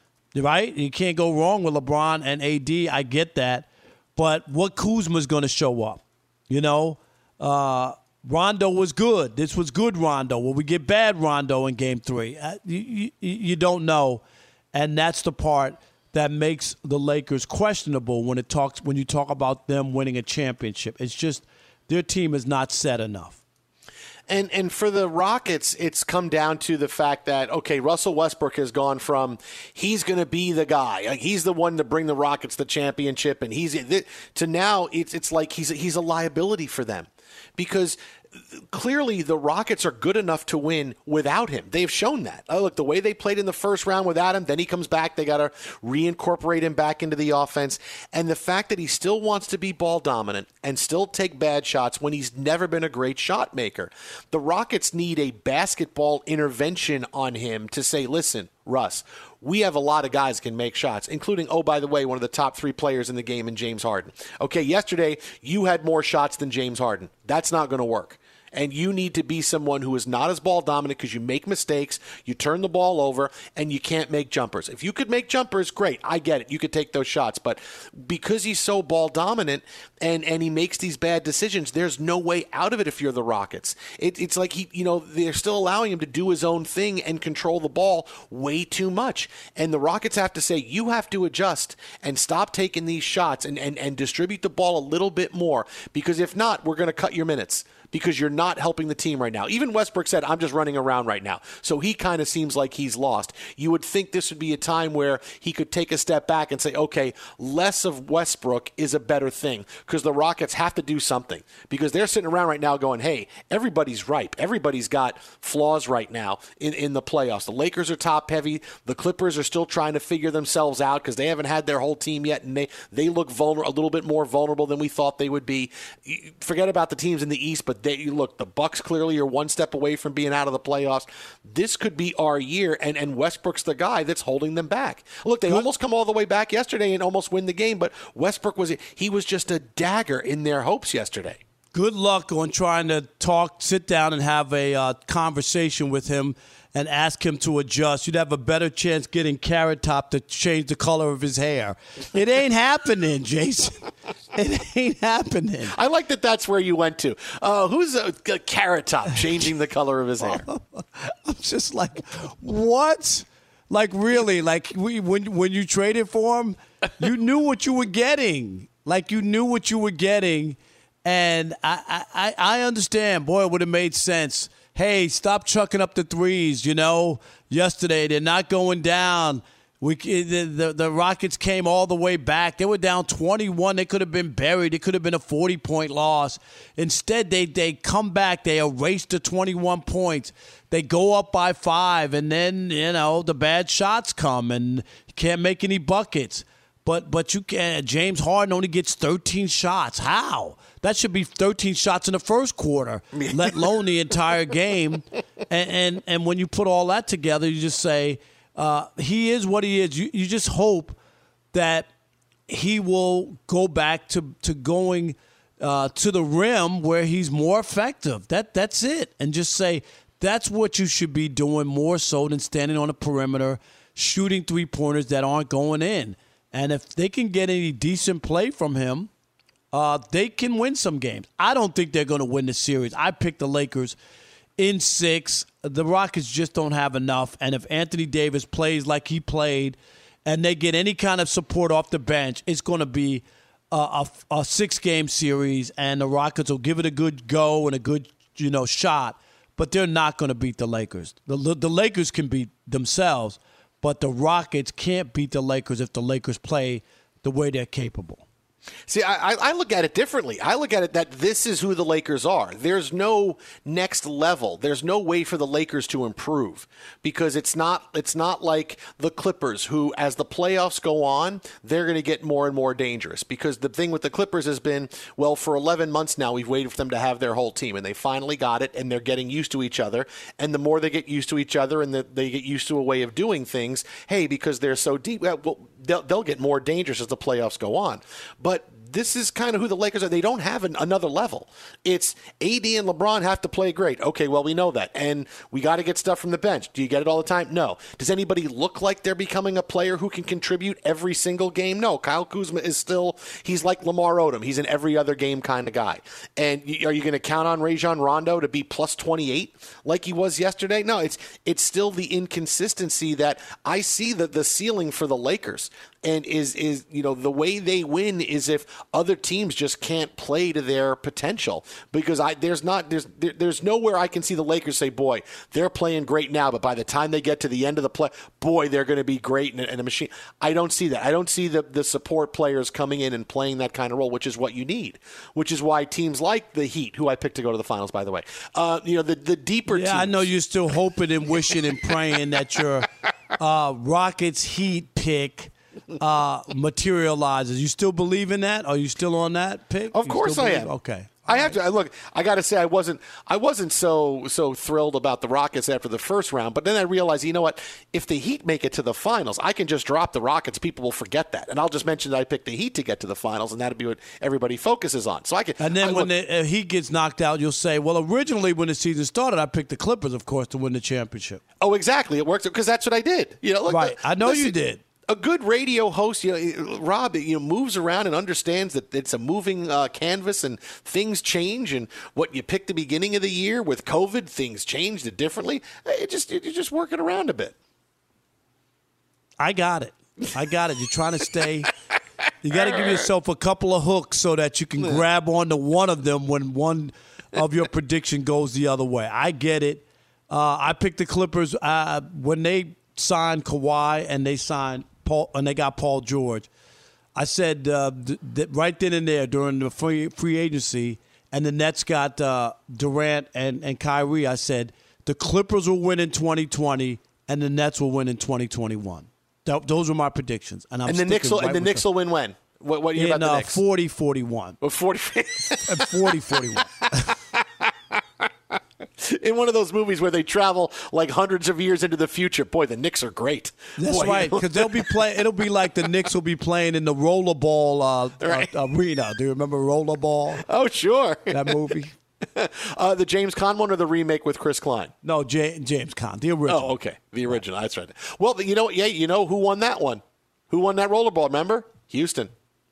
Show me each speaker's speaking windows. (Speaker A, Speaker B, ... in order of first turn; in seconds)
Speaker A: 0.3-14.2, 14.7-23.4, 141.7-155.7, 160.3-211.0, 211.5-211.9, 212.5-229.1, 229.7-234.0, 234.6-258.2, 339.7-351.6, 365.6-371.4, 373.7-374.8, 389.4-391.7, 392.4-406.5, 407.2-421.8, 422.9-424.6, 425.7-427.1, 433.8-440.4, 441.3-441.9, 445.0-446.7
Speaker B: 24.3-38.0, 38.6-141.4, 155.7-160.4, 203.2-203.7, 258.9-340.3, 349.9-350.7, 351.3-366.1, 371.6-374.5, 375.1-387.6, 392.6-392.9, 420.9-423.6, 424.6-426.2, 427.0-427.7, 429.0-434.9, 440.4-441.5, 442.3-444.9, 446.5-452.3